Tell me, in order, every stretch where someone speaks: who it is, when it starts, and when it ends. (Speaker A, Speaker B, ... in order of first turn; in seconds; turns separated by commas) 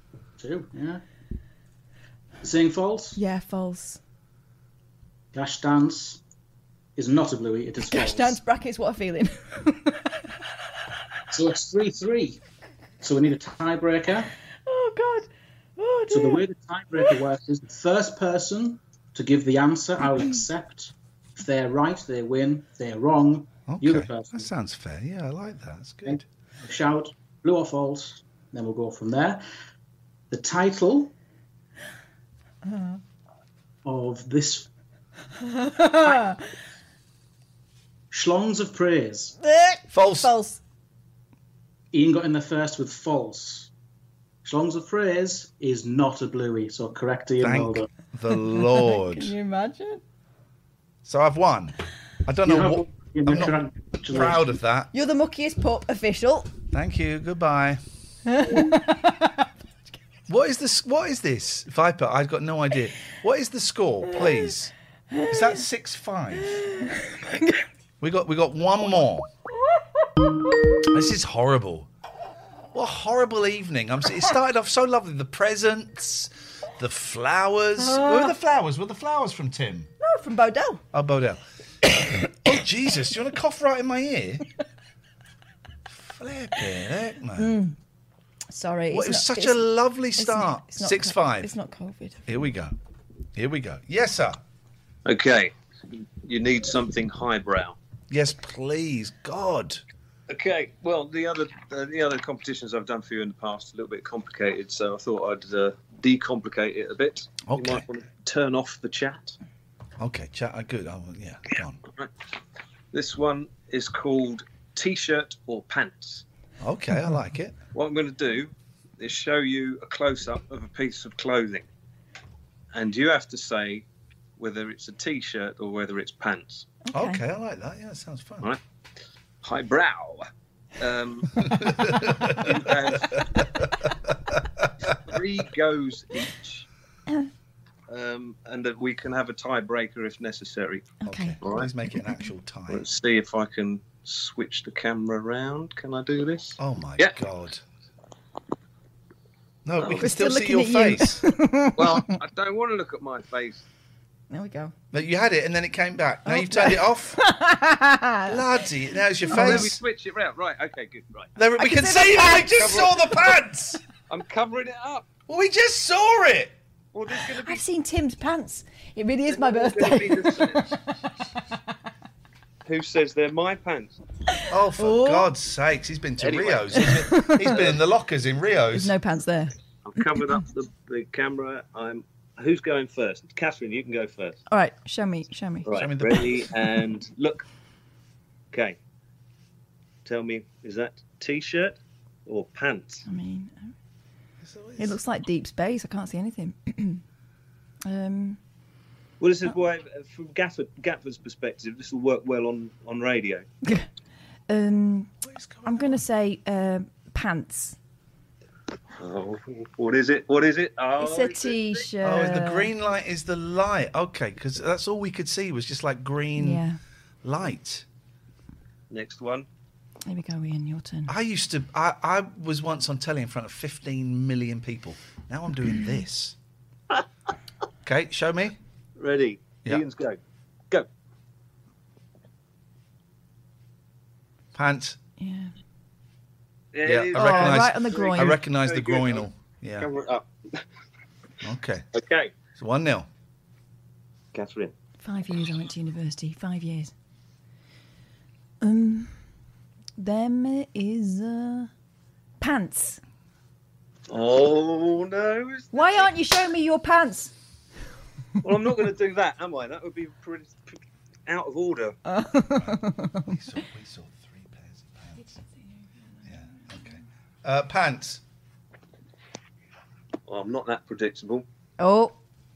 Speaker A: 0.4-1.0, Speaker A: 2.4-3.2, Speaker B: 3.1-4.0, Speaker A: 5.3-6.2, Speaker A: 7.0-8.4, Speaker B: 7.9-10.2, Speaker A: 11.3-12.4, Speaker A: 13.0-14.3, Speaker B: 14.7-17.1, Speaker A: 16.1-24.5, Speaker C: 23.7-26.2, Speaker A: 26.1-29.4, Speaker A: 30.3-31.1, Speaker B: 32.6-33.0, Speaker A: 33.8-34.7, Speaker B: 35.4-36.4, Speaker A: 38.1-39.3, Speaker B: 39.4-40.6, Speaker C: 39.9-40.3, Speaker A: 41.9-43.7, Speaker A: 44.4-47.9, Speaker C: 47.4-49.3, Speaker B: 48.3-50.0, Speaker C: 51.0-54.9, Speaker A: 52.4-54.5, Speaker B: 54.9-56.5, Speaker C: 56.7-57.8, Speaker B: 58.3-59.4, Speaker C: 60.3-64.7, Speaker B: 65.1-65.6, Speaker C: 65.3-66.6, Speaker B: 66.6-67.6, Speaker C: 68.0-69.3, Speaker B: 69.7-70.3, Speaker C: 70.8-71.9, Speaker C: 72.7-79.9, Speaker B: 77.8-78.3, Speaker B: 80.0-80.8, Speaker C: 80.9-84.4, Speaker C: 85.9-87.5, Speaker B: 87.4-87.8, Speaker B: 88.5-92.3, Speaker C: 88.9-91.5, Speaker C: 92.3-92.7, Speaker C: 93.3-94.4, Speaker D: 95.0-97.8, Speaker C: 98.1-99.8, Speaker D: 100.3-109.4, Speaker C: 107.4-107.9, Speaker C: 110.0-111.8, Speaker D: 111.8-112.1, Speaker D: 112.9-116.2, Speaker C: 116.6-117.6, Speaker D: 117.7-121.7, Speaker D: 122.7-123.8, Speaker D: 124.4-126.7, Speaker B: 126.9-127.2, Speaker C: 126.9-128.5, Speaker D: 129.4-130.3, Speaker D: 130.8-131.5, Speaker C: 131.4-134.9, Speaker D: 132.1-133.3, Speaker D: 134.9-136.7, Speaker D: 137.9-141.7, Speaker B: 141.0-141.4, Speaker C: 141.0-142.9, Speaker D: 142.7-147.2, Speaker C: 146.6-147.6, Speaker C: 149.6-151.2, Speaker B: 149.8-152.2, Speaker D: 151.8-153.6, Speaker B: 154.3-154.7, Speaker C: 154.9-157.2, Speaker B: 156.3-158.4, Speaker C: 158.3-159.8, Speaker B: 159.3-159.7, Speaker D: 159.3-161.3, Speaker C: 161.4-163.8, Speaker B: 161.6-162.9, Speaker D: 162.4-163.2, Speaker D: 164.1-165.1, Speaker C: 165.3-166.6, Speaker D: 166.9-167.6, Speaker B: 167.3-170.8, Speaker D: 169.3-170.8, Speaker D: 172.6-174.0, Speaker C: 174.5-178.9, Speaker B: 174.7-175.3, Speaker D: 176.2-177.8, Speaker B: 176.7-177.6, Speaker B: 178.7-179.5, Speaker D: 179.8-184.4, Speaker B: 184.5-185.7, Speaker D: 185.7-187.4, Speaker C: 185.7-186.5, Speaker D: 188.5-188.8, Speaker D: 190.1-193.0, Speaker B: 193.1-193.7, Speaker C: 194.4-195.0, Speaker B: 194.8-197.0, Speaker B: 197.8-198.4, Speaker D: 199.2-203.4, Speaker B: 204.5-205.1, Speaker C: 205.2-206.0, Speaker B: 205.6-207.8, Speaker D: 209.0-211.9, Speaker B: 211.0-212.7, Speaker C: 212.0-216.6, Speaker B: 216.4-216.8, Speaker C: 217.2-217.9, Speaker D: 218.9-219.5, Speaker B: 220.1-221.1, Speaker C: 221.1-226.4, Speaker C: 227.8-228.6, Speaker D: 228.9-230.2, Speaker C: 234.6-235.0, Speaker B: 235.2-235.5, Speaker D: 236.7-240.6, Speaker C: 236.8-239.9, Speaker B: 237.1-238.4, Speaker C: 241.4-241.9, Speaker D: 241.9-242.4, Speaker C: 242.5-243.1, Speaker D: 244.3-244.7, Speaker B: 245.0-246.9, Speaker B: 248.6-249.1, Speaker B: 250.0-251.7, Speaker B: 252.4-253.0, Speaker D: 254.1-256.1, Speaker B: 255.7-257.3, Speaker D: 258.4-262.0, Speaker B: 262.1-263.4, Speaker C: 262.5-265.3, Speaker B: 265.2-266.7, Speaker C: 266.3-268.2, Speaker D: 270.3-271.4, Speaker B: 271.8-272.1